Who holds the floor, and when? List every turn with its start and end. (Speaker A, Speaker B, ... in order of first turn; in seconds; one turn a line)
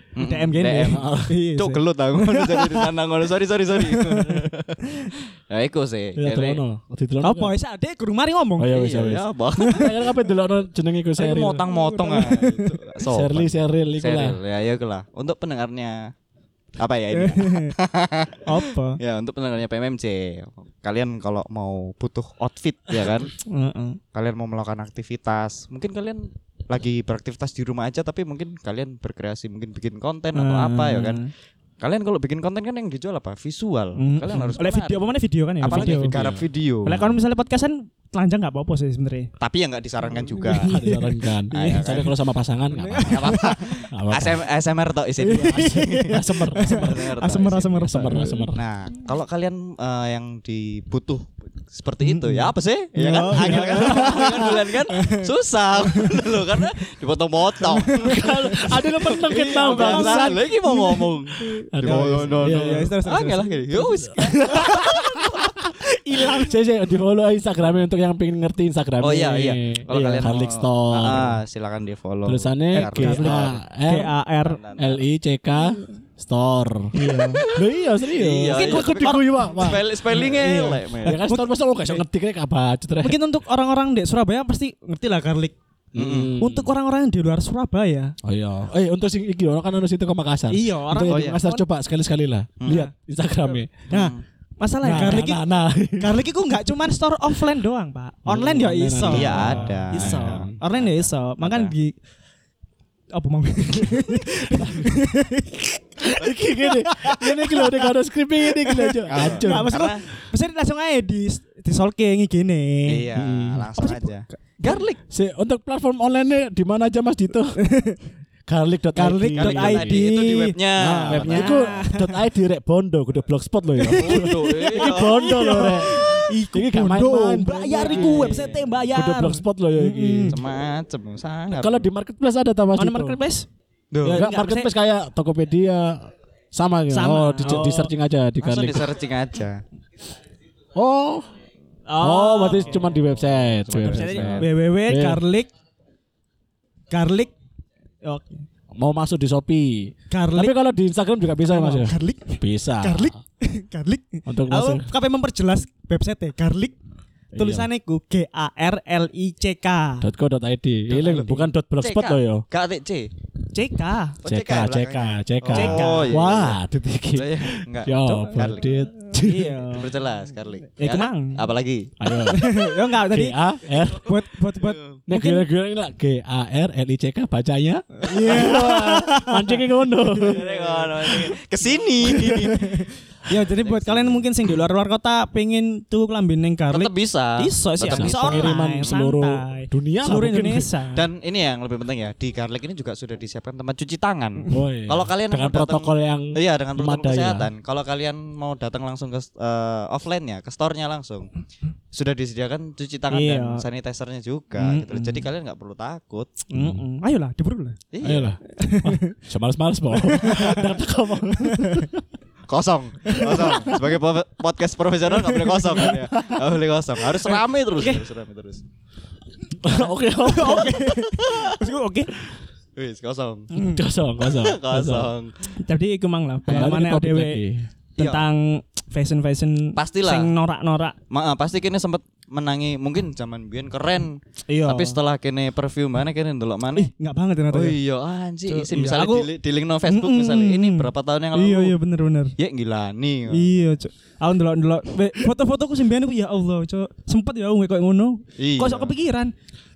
Speaker A: 0.1-1.0
Speaker B: 0.2-2.9
Speaker C: 0.8-1.4
Speaker A: 1.6-6.6
Speaker B: 3.8-5.1
Speaker C: 6.2-7.5
Speaker B: 7.2-8.8
Speaker C: 8.6-11.7
Speaker A: 8.7-10.0
Speaker B: 9.6-9.9
Speaker A: 11.2-16.1
Speaker B: 11.6-12.8
Speaker C: 13.1-14.4
Speaker A: 16.8-23.3
Speaker B: 17.1-17.8
Speaker B: 18.4-19.0
Speaker B: 23.4-24.0
Speaker A: 24.1-31.3
Speaker B: 30.3-31.3
Speaker A: 31.8-35.0
Speaker B: 34.0-36.2
Speaker A: 35.6-37.0
Speaker C: 35.6-37.2
Speaker B: 36.9-39.3
Speaker A: 39.4-40.8
Speaker C: 40.4-43.4
Speaker B: 40.4-42.0
Speaker A: 41.5-42.1
Speaker B: 42.7-43.7
Speaker A: 43.0-48.0
Speaker C: 43.9-44.5
Speaker B: 45.2-48.5
Speaker C: 45.3-48.6
Speaker A: 48.5-65.5
Speaker B: 52.0-55.2
Speaker C: 53.3-54.5
Speaker B: 55.9-56.4
Speaker B: 57.6-63.8
Speaker C: 58.0-60.5
Speaker C: 61.7-62.9
Speaker C: 64.1-71.4
Speaker B: 64.4-64.9
Speaker B: 65.8-66.6
Speaker A: 69.0-73.6
Speaker C: 72.2-74.1
Speaker B: 72.7-74.6
Speaker A: 74.5-75.0
Speaker C: 74.8-76.9
Speaker B: 76.9-77.5
Speaker C: 77.5-79.8
Speaker A: 78.1-81.2
Speaker B: 78.5-82.0
Speaker C: 81.0-83.2
Speaker B: 83.0-85.6
Speaker A: 86.0-86.3
Speaker C: 86.0-86.7
Speaker B: 86.4-88.2
Speaker C: 88.2-93.8
Speaker B: 90.5-91.6
Speaker A: 91.1-91.4
Speaker A: 92.6-92.9
Speaker A: 93.9-94.2
Speaker B: 93.9-95.4
Speaker C: 94.8-96.2
Speaker B: 96.0-102.0
Speaker C: 98.2-100.5
Speaker A: 99.0-101.7
Speaker B: 103.1-113.1
Speaker C: 104.6-104.9
Speaker C: 106.1-109.7
Speaker A: 109.1-110.0
Speaker A: 112.9-115.0
Speaker C: 113.2-113.7
Speaker B: 113.8-114.1
Speaker C: 115.1-117.6
Speaker B: 117.6-118.0
Speaker C: 118.5-120.0
Speaker B: 119.0-122.2
Speaker A: 119.4-121.8
Speaker C: 120.8-130.4
Speaker B: 123.8-130.4
Speaker A: 123.9-125.4
Speaker A: 127.8-128.7
Speaker A: 130.3-131.8
Speaker C: 131.5-133.2
Speaker B: 132.8-133.5
Speaker A: 133.9-134.3
Speaker B: 134.0-134.7
Speaker C: 134.1-139.0
Speaker B: 136.9-137.9
Speaker A: 138.4-139.6
Speaker C: 140.8-141.3
Speaker B: 141.9-142.9
Speaker C: 142.0-145.2
Speaker A: 142.5-144.5
Speaker B: 143.8-145.5
Speaker B: 146.9-147.3
Speaker B: 148.0-148.5
Speaker C: 148.8-153.2
Speaker B: 150.1-150.5
Speaker B: 151.5-156.8
Speaker C: 154.3-154.9
Speaker C: 157.3-157.7
Speaker B: 157.4-160.1
Speaker C: 160.0-162.4
Speaker A: 160.9-163.1
Speaker B: 163.5-164.2
Speaker A: 164.2-166.6
Speaker C: 164.2-169.6
Speaker B: 165.5-166.2
Speaker A: 167.1-168.7
Speaker B: 167.9-168.7
Speaker B: 169.2-169.9
Speaker A: 169.7-171.9
Speaker B: 170.8-171.4
Speaker C: 172.0-174.2
Speaker B: 172.1-175.5
Speaker A: 174.6-175.0
Speaker C: 175.1-180.5
Speaker B: 178.0-181.3
Speaker A: 180.3-184.3
Speaker B: 182.0-191.1
Speaker A: 186.7-188.9
Speaker C: 187.9-190.7
Speaker A: 190.9-201.3
Speaker C: 194.5-197.5
Speaker A: 201.9-206.3
Speaker B: 203.1-203.6
Speaker B: 204.6-205.2
Speaker B: 206.5-207.8
Speaker C: 206.6-206.8
Speaker A: 207.9-208.3
Speaker C: 208.0-212.0
Speaker B: 208.5-209.2
Speaker B: 209.9-210.7
Speaker B: 211.4-211.9
Speaker A: 212.5-218.6
Speaker B: 213.1-213.8
Speaker C: 213.5-213.8
Speaker B: 215.1-216.1
Speaker B: 217.2-218.0
Speaker C: 219.6-220.8
Speaker A: 219.7-221.5
Speaker B: 219.8-222.3
Speaker A: 222.8-223.5
Speaker B: 223.5-223.8
Speaker C: 223.6-225.1
Speaker A: 224.2-225.4
Speaker B: 225.6-227.4
Speaker C: 226.5-227.7
Speaker B: 228.0-231.0
Speaker A: 228.0-228.2
Speaker A: 229.8-230.3
Speaker A: 231.1-236.9
Speaker B: 234.5-235.0
Speaker B: 236.8-237.8
Speaker A: 237.5-241.8
Speaker B: 238.5-239.3
Speaker B: 239.9-242.3
Speaker A: 242.4-243.5
Speaker B: 243.3-249.3
Speaker A: 248.4-248.9